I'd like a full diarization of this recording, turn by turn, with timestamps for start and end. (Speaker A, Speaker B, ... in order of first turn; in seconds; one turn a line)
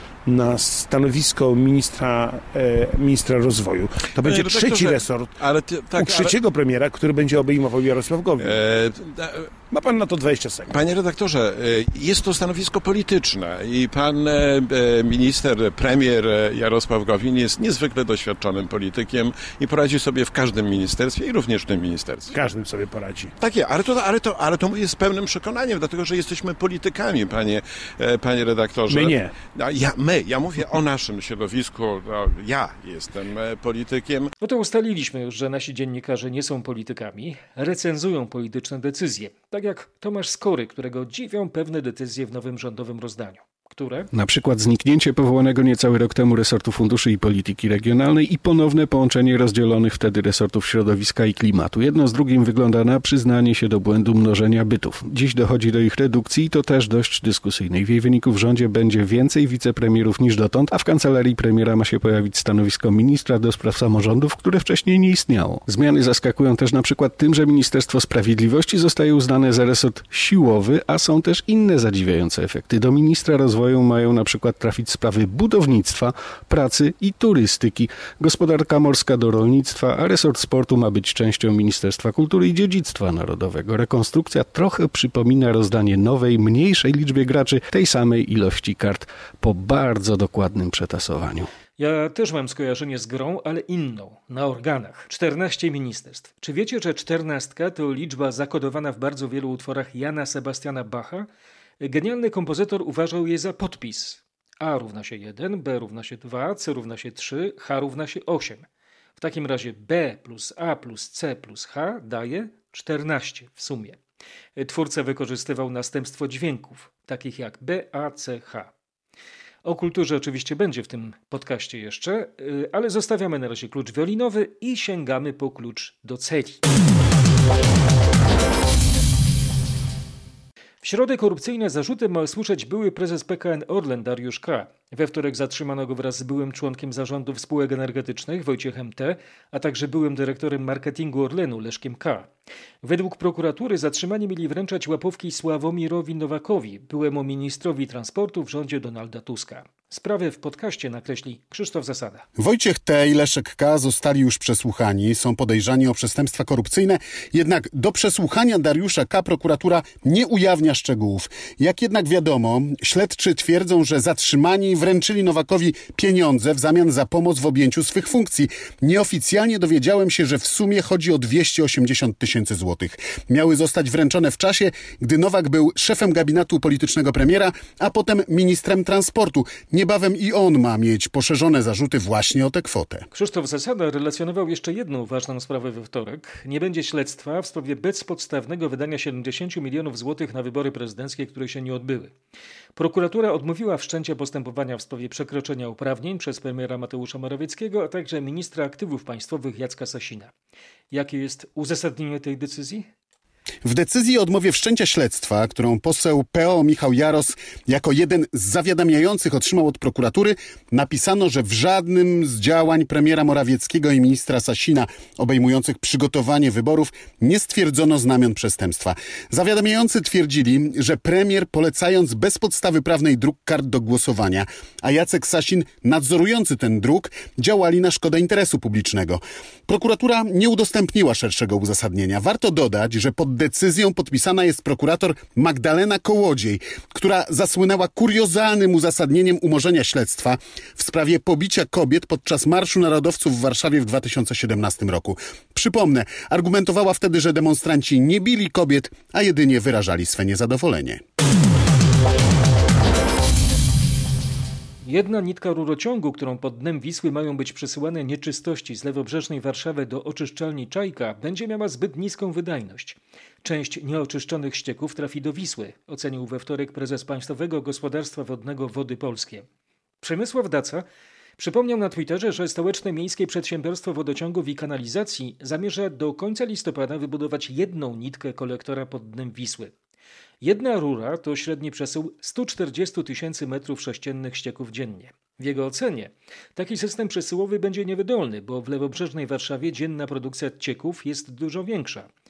Speaker A: 0.3-5.4
Speaker B: 4.2-6.4
Speaker A: 6.0-8.6
Speaker B: 8.4-9.5
Speaker A: 9.7-10.8
Speaker B: 10.7-22.4
Speaker A: 22.3-23.3
Speaker B: 23.4-34.3
Speaker A: 28.9-29.3
Speaker C: 34.4-44.1
Speaker D: 44.1-91.5
Speaker C: 91.8-101.3
Speaker C: 101.8-108.7
Speaker C: 109.2-114.0
Speaker C: 114.6-118.7
Speaker C: 119.7-126.6
Speaker C: 130.8-142.3
Speaker C: 142.8-152.2
Speaker E: 152.4-183.1
Speaker C: 183.1-192.2
Speaker C: 192.8-200.3
Speaker C: 200.9-202.9
Speaker E: 203.7-251.0
Speaker C: 254.8-269.5
Speaker C: 270.0-270.9
Speaker C: 271.4-279.7
Speaker C: 280.4-292.1